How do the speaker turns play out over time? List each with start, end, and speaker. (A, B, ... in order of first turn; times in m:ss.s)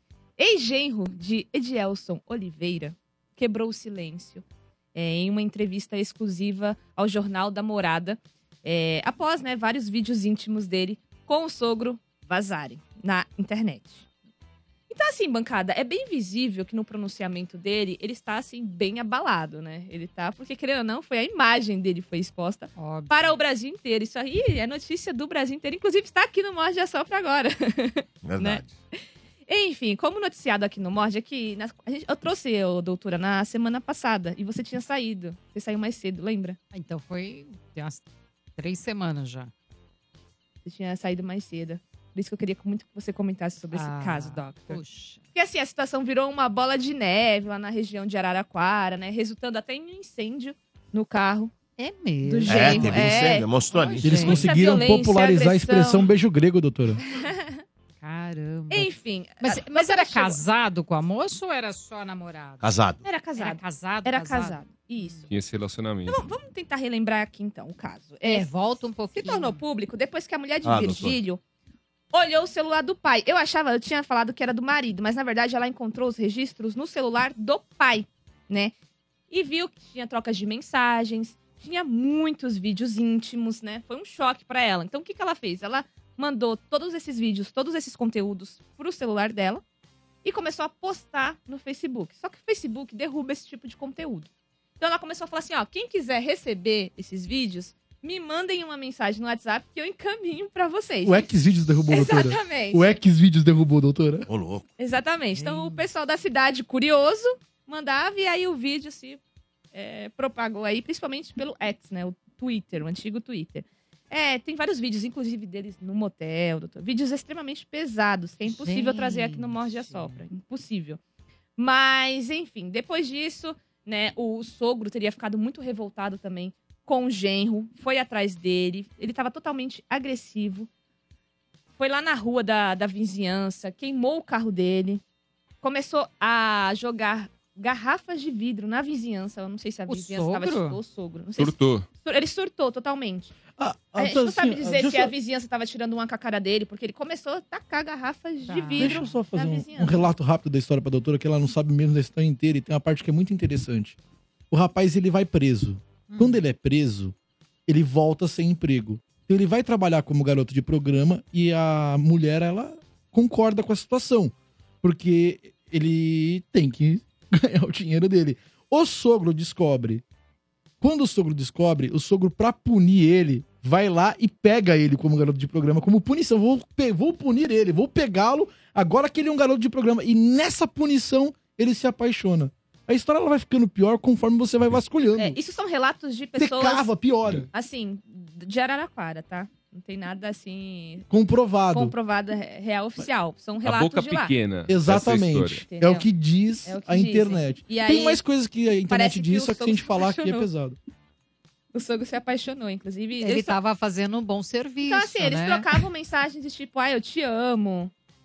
0:00.4-0:04.4 A
0:04.9-0:14.0 A
0:14.9-0:36.6 A
0:22.8-0:23.4 B
0:28.2-0:28.7 C
0:36.7-0:38.0 B
0:38.6-0:39.5 B
0:40.6-0:44.8 A
0:43.7-0:45.2 B
0:45.3-0:51.5 A
0:51.8-0:54.4 B
0:52.2-0:53.5 A
0:52.5-0:54.4 C
0:54.0-0:57.0 D
0:54.1-0:56.1 A
0:57.1-0:57.5 A
0:58.0-1:02.7 B
0:58.7-1:00.4 A
1:02.6-1:03.0 C
1:03.0-1:05.3 A
1:03.4-1:05.2 B
1:05.3-1:06.2 E
1:06.1-1:08.5 A
1:08.2-1:09.6 B
1:09.1-1:11.4 A
1:10.6-1:11.2 C
1:12.1-1:18.7 A
1:19.3-1:29.6 A
1:30.2-1:34.3 A
1:34.8-1:41.3 A
1:41.0-1:44.3 D
1:41.9-1:42.8 A
1:44.3-1:44.6 C
1:44.8-1:49.2 A
1:45.3-1:45.8 B
1:49.7-2:01.0 A
1:58.4-2:00.2 B
2:01.6-2:10.7 A
2:11.8-2:15.0 A
2:15.6-2:23.3 A
2:19.9-2:20.8 B
2:21.4-2:21.8 E
2:23.6-2:25.1 D
2:24.0-2:30.1 A
2:28.4-2:29.2 B
2:28.8-2:34.0 D
2:34.5-2:37.1 D
2:36.1-2:36.4 B
2:37.7-2:50.0 D
2:50.8-3:05.4 D
3:05.2-3:06.9 A
3:06.4-3:07.5 D
3:07.5-3:11.1 A
3:11.1-3:11.9 D
3:11.7-3:14.3 A
3:13.6-3:15.6 E
3:14.7-3:20.8 D
3:15.7-3:16.0 A
3:16.6-3:18.2 A
3:18.9-3:20.5 A
3:21.7-3:23.6 A
3:23.2-3:25.8 B
3:24.8-3:27.9 A